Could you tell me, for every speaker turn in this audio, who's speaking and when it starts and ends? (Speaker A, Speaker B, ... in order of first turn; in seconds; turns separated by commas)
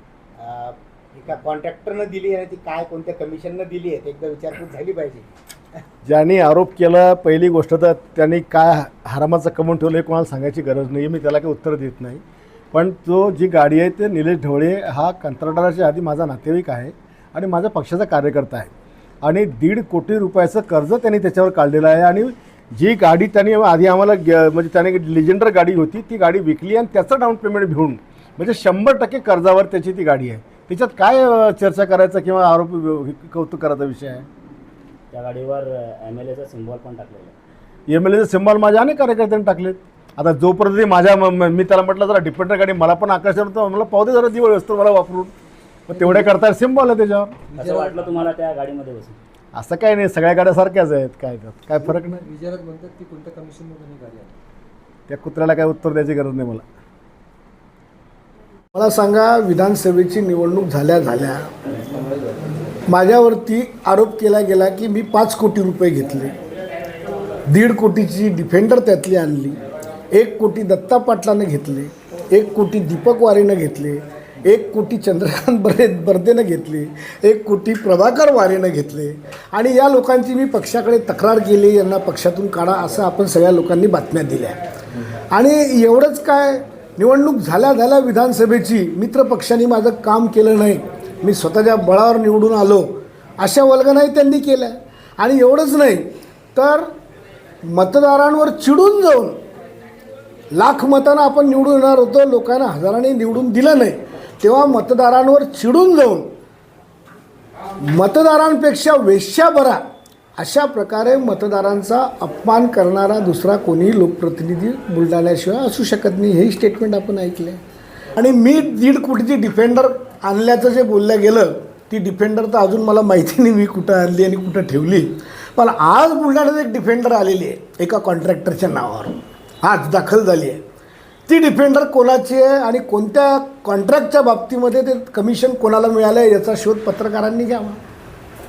Speaker A: 0.4-5.2, Speaker B: 6.0-12.2, Speaker B: 12.7-18.7, Speaker B: 19.2-34.2, Speaker C: 35.1-37.3, Speaker B: 37.9-45.3, Speaker B: 45.9-47.5, Speaker D: 45.9-46.3, Speaker D: 47.5-48.1, Speaker C: 47.6-49.2, Speaker B: 49.5-52.2, Speaker D: 52.0-54.4, Speaker B: 55.1-56.6, Speaker E: 58.7-61.5, Speaker D: 61.8-62.8, Speaker E: 62.9-66.3, Speaker E: 67.5-69.6, Speaker E: 70.1-84.6, Speaker E: 85.3-92.9, Speaker E: 93.4-96.9, Speaker E: 97.7-99.4, Speaker E: 100.5-106.3, Speaker E: 107.8-109.8, Speaker E: 110.4-117.6, Speaker E: 118.2-130.6, Speaker E: 131.3-137.8